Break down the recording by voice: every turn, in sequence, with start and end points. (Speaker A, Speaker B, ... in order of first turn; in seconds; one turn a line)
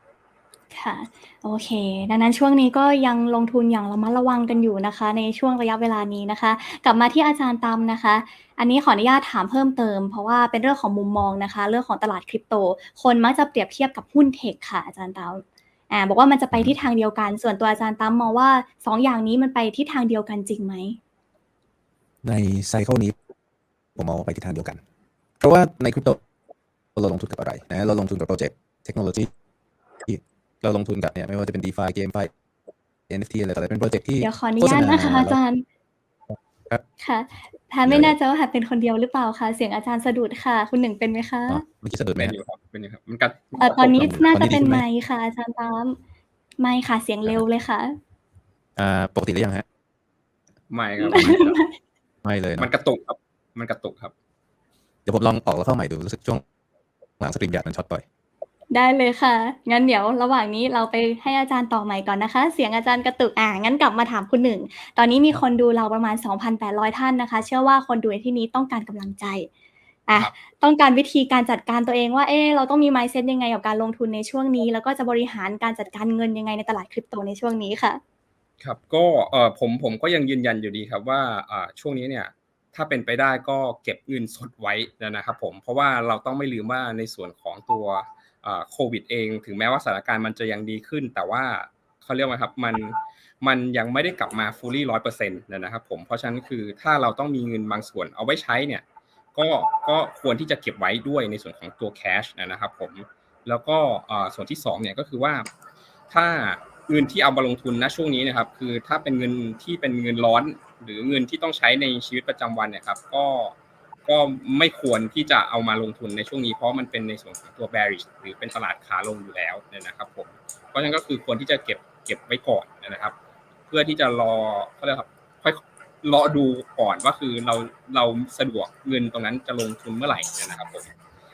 Speaker A: 0.7-21.0
Speaker B: 22.2-23.1
Speaker B: 23.9-24.8
Speaker B: 25.4-26.2
Speaker B: 26.9-29.3
Speaker B: 30.0-32.3
Speaker B: 33.1-35.4
Speaker A: 34.2-35.6
Speaker A: 37.0-41.6
Speaker B: 37.9-38.1
Speaker B: 41.5-42.4
Speaker C: 42.2-44.0
Speaker A: 43.6-46.0
Speaker B: 43.8-44.9
Speaker A: 46.6-47.9
Speaker B: 48.8-49.6
Speaker C: 50.7-51.6
Speaker A: 51.0-51.7
Speaker B: 52.2-52.7
Speaker C: 52.6-54.1
Speaker B: 55.0-56.4
Speaker B: 57.2-58.0
Speaker A: 58.7-69.5
Speaker A: 70.1-78.0
Speaker C: 78.6-98.8
Speaker C: 99.3-105.5
Speaker C: 106.1-113.5
Speaker C: 114.0-123.2
Speaker C: 123.7-130.9